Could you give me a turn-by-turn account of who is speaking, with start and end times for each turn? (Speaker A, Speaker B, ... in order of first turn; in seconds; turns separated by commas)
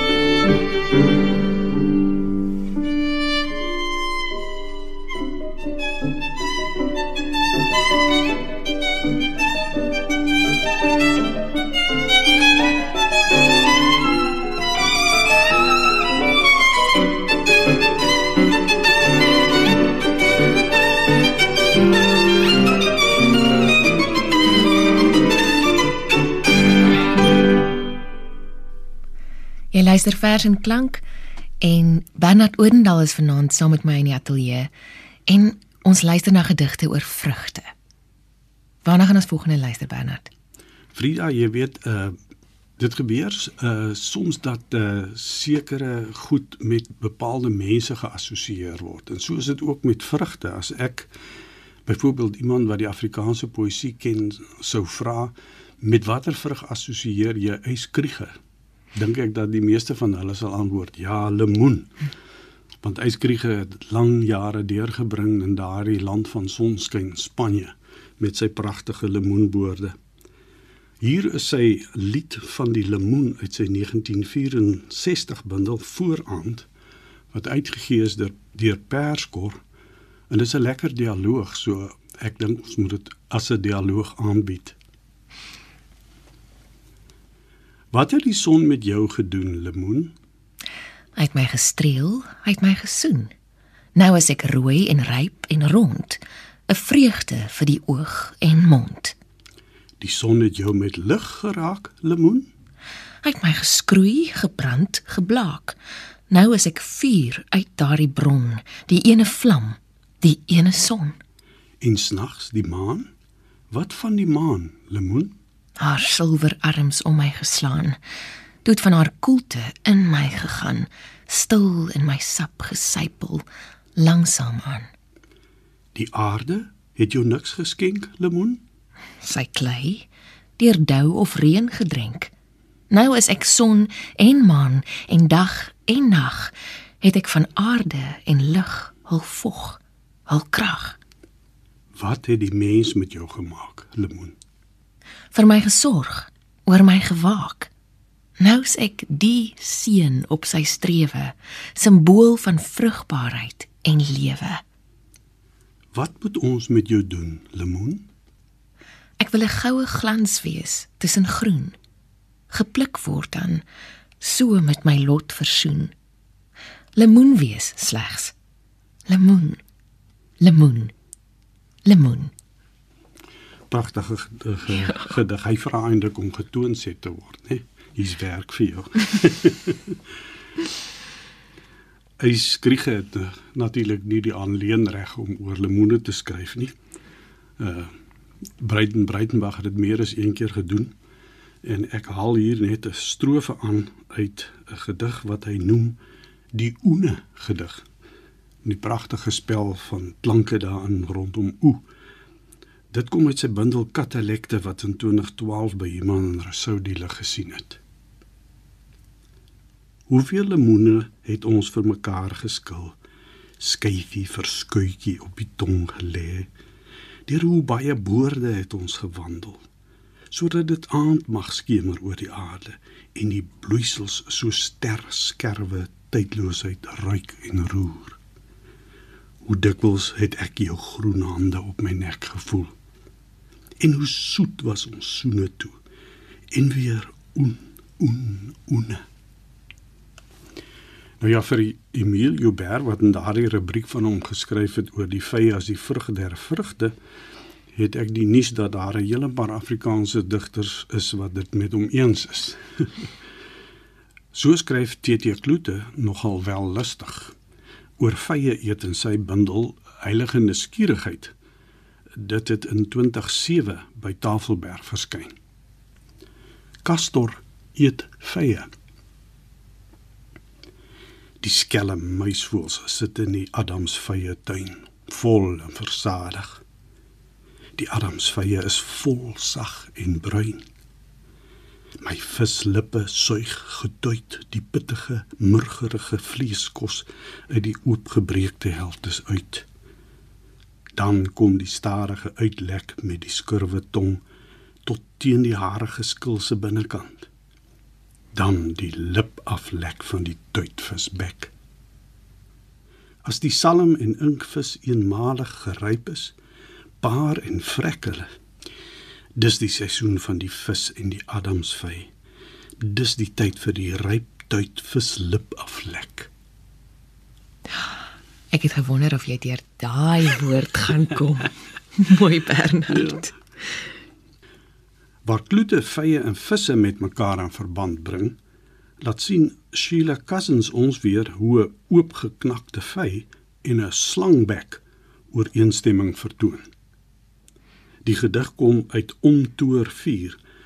Speaker A: 29.7-31.0, Speaker A: 31.6-34.7, Speaker A: 35.3-37.7, Speaker A: 38.8-40.3, Speaker B: 40.9-42.1, Speaker B: 42.8-51.1, Speaker B: 51.9-58.3, Speaker B: 58.9-61.9, Speaker B: 62.8-70.0, Speaker B: 71.0-76.7, Speaker B: 77.3-79.6, Speaker B: 80.3-84.8, Speaker B: 87.9-90.1, Speaker A: 91.2-93.3, Speaker A: 93.9-99.2, Speaker B: 100.0-102.5, Speaker A: 103.2-105.8, Speaker A: 106.3-111.2, Speaker B: 111.8-113.1, Speaker B: 113.7-115.3, Speaker A: 115.8-118.0, Speaker A: 118.6-123.4, Speaker A: 124.0-124.9, Speaker B: 125.9-128.6, Speaker A: 129.2-132.3, Speaker A: 132.9-141.0, Speaker B: 141.9-144.3, Speaker A: 145.3-147.7, Speaker A: 148.4-154.6, Speaker B: 155.9-158.1, Speaker A: 159.2-161.7, Speaker A: 162.5-163.6, Speaker A: 164.2-165.9, Speaker A: 167.0-168.3, Speaker A: 169.1-169.6, Speaker A: 170.4-170.9, Speaker A: 171.8-172.3, Speaker B: 173.7-180.0, Speaker B: 182.2-186.7, Speaker B: 187.6-187.9, Speaker B: 188.6-190.9, Speaker B: 191.6-196.0, Speaker B: 196.5-197.8, Speaker B: 198.6-201.8, Speaker B: 202.9-207.8, Speaker B: 210.1-212.9, Speaker B: 213.6-216.5, Speaker B: 217.3-219.6, Speaker B: 220.3-228.2, Speaker B: 229.4-232.7, Speaker B: 233.8-235.8, Speaker B: 236.5-239.0, Speaker B: 241.2-246.9, Speaker B: 247.7-253.1, Speaker B: 254.3-257.3, Speaker B: 258.0-261.3, Speaker B: 262.1-265.3, Speaker B: 266.8-268.7, Speaker B: 271.4-276.6, Speaker B: 277.8-280.6, Speaker B: 282.0-289.6, Speaker B: 290.9-294.2, Speaker B: 294.8-297.3, Speaker B: 298.3-301.5, Speaker B: 303.2-306.4, Speaker B: 307.0-308.3, Speaker B: 309.4-312.1, Speaker B: 312.8-316.3, Speaker A: 318.5-323.4, Speaker B: 325.2-328.4, Speaker B: 329.0-336.7, Speaker B: 338.0-340.4